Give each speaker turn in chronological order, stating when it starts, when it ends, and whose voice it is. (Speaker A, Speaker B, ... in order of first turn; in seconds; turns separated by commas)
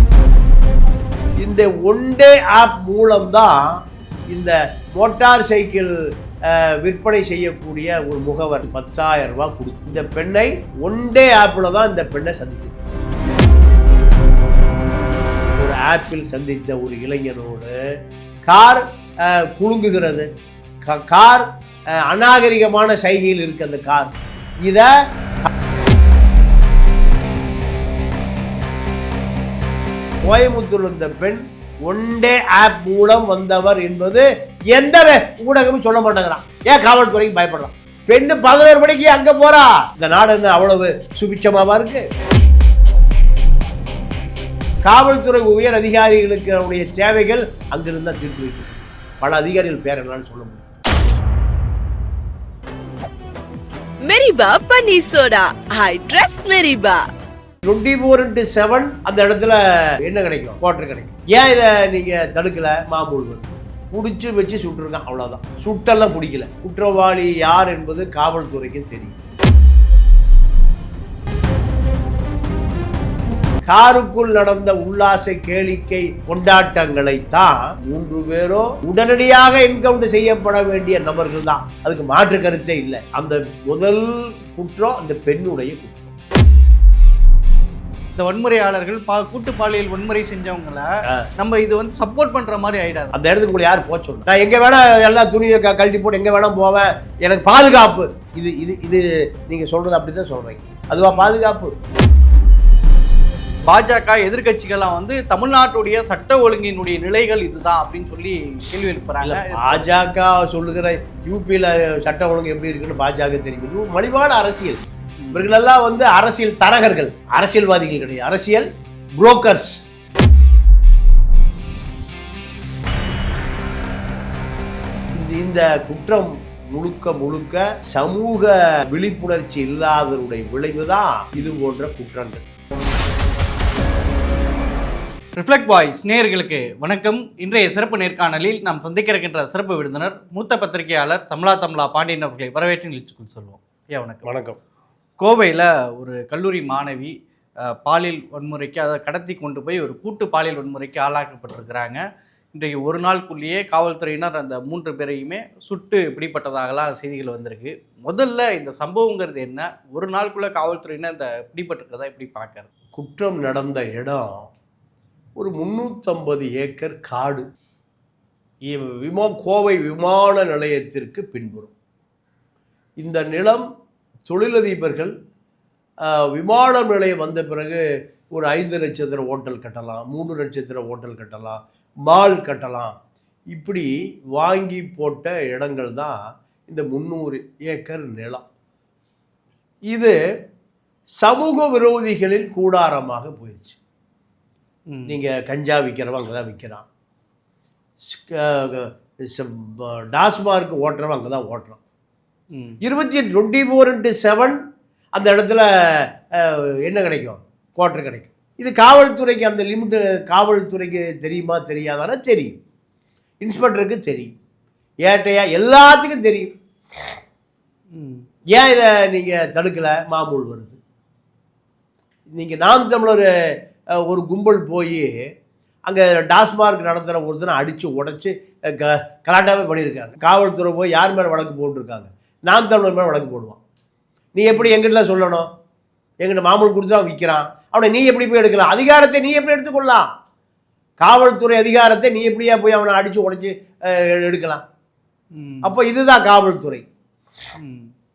Speaker A: 1.4-3.8, Speaker A: 4.3-12.8, Speaker A: 15.6-17.7, Speaker A: 18.5-20.3, Speaker A: 20.8-21.5, Speaker A: 22.0-24.1, Speaker A: 24.6-25.5, Speaker A: 30.2-42.1, Speaker A: 44.9-50.6, Speaker B: 54.0-57.1, Speaker A: 57.7-69.1, Speaker A: 73.7-86.1, Speaker C: 88.2-93.2, Speaker A: 93.1-101.7, Speaker C: 101.1-101.3, Speaker C: 103.6-109.9, Speaker A: 109.2-114.8, Speaker C: 115.2-115.5, Speaker A: 115.3-119.8, Speaker A: 125.1-132.4, Speaker C: 135.3-144.3, Speaker A: 144.2-144.6, Speaker C: 145.2-152.0, Speaker C: 152.5-162.7, Speaker A: 162.9-164.5, Speaker A: 165.4-167.5, Speaker A: 168.7-171.7, Speaker A: 173.0-173.7, Speaker A: 174.3-175.1, Speaker A: 176.0-177.8, Speaker A: 178.3-182.9, Speaker A: 183.5-188.4, Speaker A: 189.9-190.2, Speaker A: 191.2-193.8, Speaker C: 194.9-195.2, Speaker A: 195.1-196.9, Speaker A: 198.1-201.8, Speaker C: 202.5-202.8, Speaker A: 202.8-204.6, Speaker A: 205.2-212.6, Speaker A: 213.4-214.3, Speaker A: 215.1-216.5, Speaker C: 217.9-218.2, Speaker A: 218.5-220.8, Speaker A: 222.3-223.3, Speaker A: 224.0-225.1, Speaker A: 225.9-233.6, Speaker A: 234.4-235.5, Speaker A: 236.2-240.1, Speaker A: 241.0-244.6, Speaker C: 245.3-245.7, Speaker A: 245.6-246.8, Speaker C: 247.6-247.9